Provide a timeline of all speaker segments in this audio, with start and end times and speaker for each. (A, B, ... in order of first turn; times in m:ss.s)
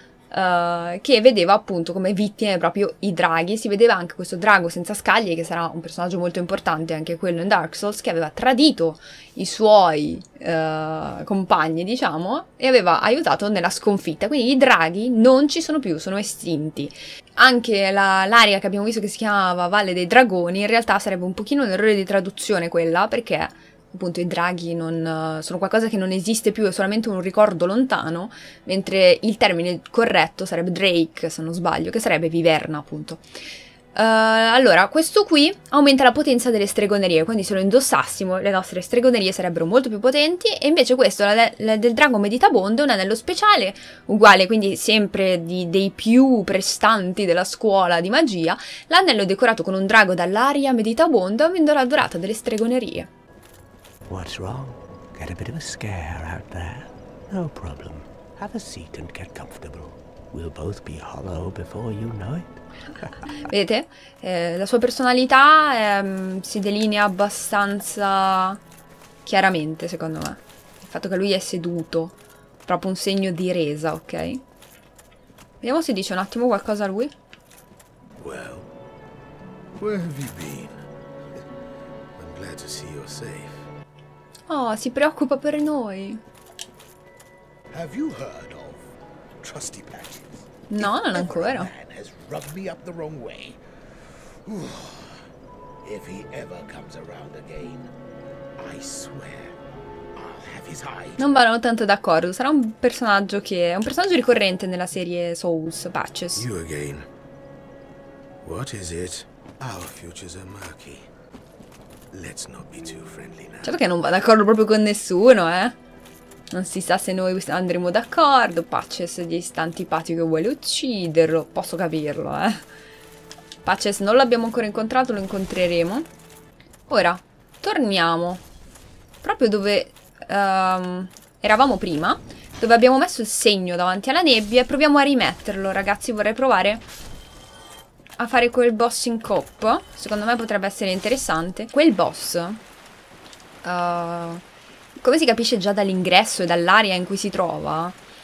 0:00.3-0:33.2 A
0:33.9-0:53.1 A
0:54.1-1:02.6 B
1:03.4-1:08.6 A
1:09.2-1:14.4 A
1:15.6-1:17.1 A
1:18.2-1:18.7 C
1:19.8-1:20.9 C
1:22.2-1:23.7 C
1:24.5-1:26.2 A
1:27.7-1:35.2 C
1:30.7-1:31.7 A
1:35.8-1:37.9 C
1:38.6-1:39.5 C
1:40.1-1:41.2 C
1:41.2-1:46.4 A
1:46.4-1:47.1 C
1:48.4-1:51.1 C
1:52.1-1:53.8 C
1:53.6-1:55.8 A
1:56.5-2:02.6 A
2:03.6-2:06.1 A
2:06.9-2:08.4 A
2:09.2-2:16.8 A
2:18.2-2:22.6 A
2:23.6-2:24.4 A
2:25.0-2:28.0 A